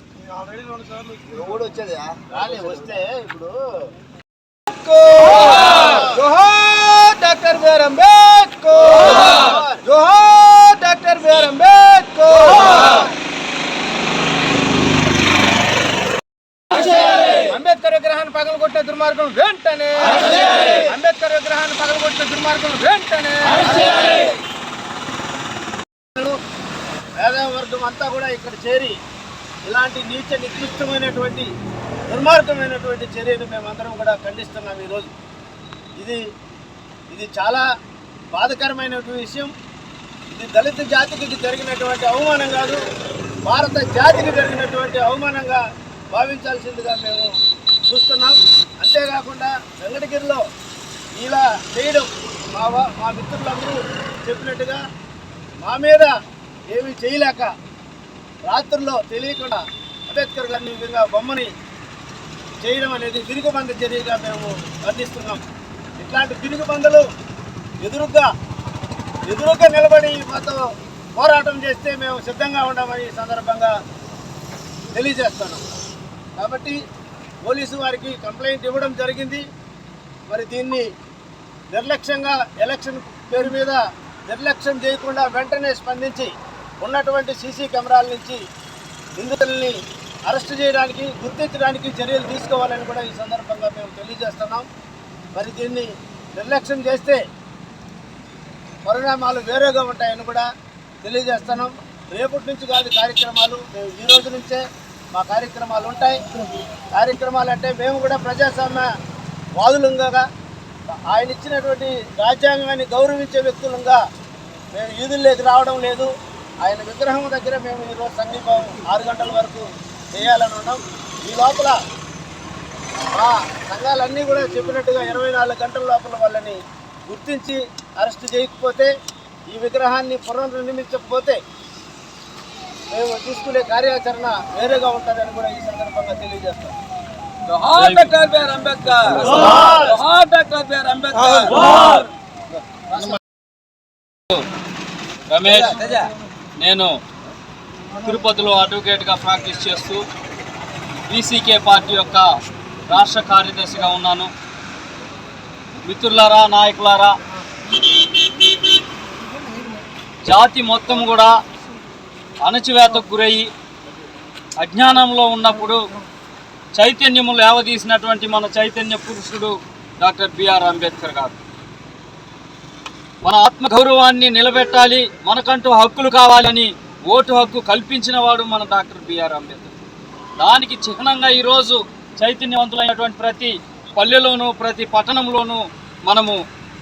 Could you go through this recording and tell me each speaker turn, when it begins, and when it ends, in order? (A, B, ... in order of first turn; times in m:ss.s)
0:00.4-0:01.2 A
0:01.0-0:03.9 B
0:04.7-0:13.1 A
0:05.8-0:06.1 B
0:09.1-0:09.8 B
0:16.7-0:24.0 A
0:23.8-0:24.2 B
0:27.2-0:29.0 B
0:29.6-0:31.5 B
0:32.1-0:35.1 B
0:37.1-0:37.7 B
0:38.3-0:39.5 B
0:40.3-0:42.8 B
0:43.4-0:50.5 B
0:51.1-0:54.8 B
0:55.6-0:56.2 B
0:56.7-0:57.5 B
0:58.5-1:01.5 B
1:02.6-1:05.4 B
1:06.0-1:07.1 B
1:07.8-1:08.3 B
1:09.3-1:13.7 B
1:14.9-1:15.6 B
1:16.4-1:16.8 B
1:17.4-1:19.5 B
1:20.3-1:20.9 B
1:21.7-1:28.4 B
1:29.2-1:34.7 B
1:35.3-1:37.2 B
1:38.8-1:40.5 B
1:41.0-1:46.2 B
1:46.9-1:48.9 B
1:49.6-1:50.3 B
1:51.1-1:54.0 B
1:54.7-1:56.1 B
1:56.6-2:01.8 B
2:03.1-2:08.9 B
2:09.5-2:11.4 B
2:12.9-2:16.8 B
2:17.5-2:20.0 C
2:17.5-2:22.0 A
2:19.4-2:19.9 B
2:21.3-2:21.9 C
2:22.9-2:23.2 B
2:25.3-2:26.1 C
2:26.6-2:27.0 C
2:28.0-2:30.0 C
2:31.1-2:32.3 C
2:32.9-2:34.3 C
2:35.8-2:37.2 C
2:40.3-2:41.4 C
2:42.4-2:43.5 C
2:44.6-2:45.8 C
2:46.8-2:51.4 C
2:53.2-2:59.7 C
3:00.4-3:06.4 C